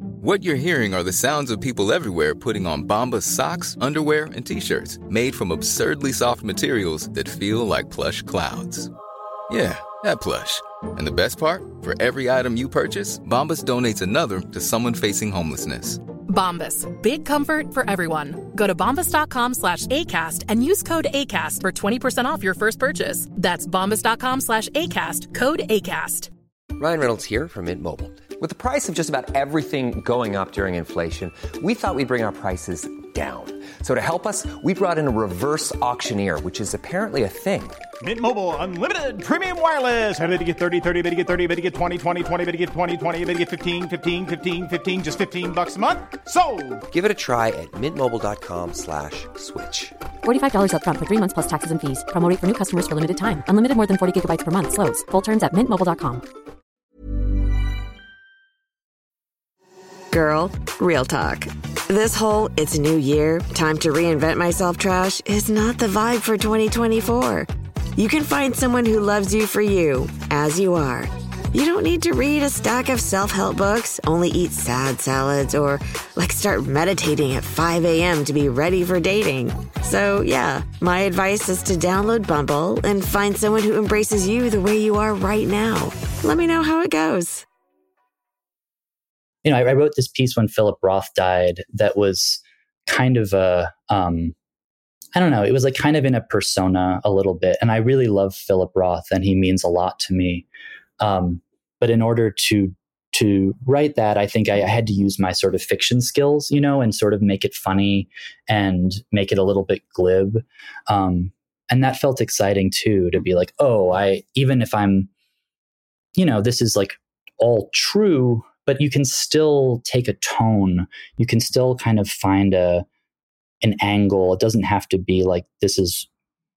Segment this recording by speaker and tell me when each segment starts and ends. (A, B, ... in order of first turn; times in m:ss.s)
0:00.2-0:08.9 A
0:09.5-0:16.0 A
0:16.3-0:26.3 B
0:26.8-0:37.8 C
0:38.0-0:46.9 D
0:46.9-0:49.9 C
0:50.2-0:56.2 E
1:00.1-1:27.5 F
1:29.4-1:34.4 G
1:35.2-1:40.5 G
1:41.0-1:55.1 G
1:56.2-2:02.8 G
2:03.6-2:06.1 G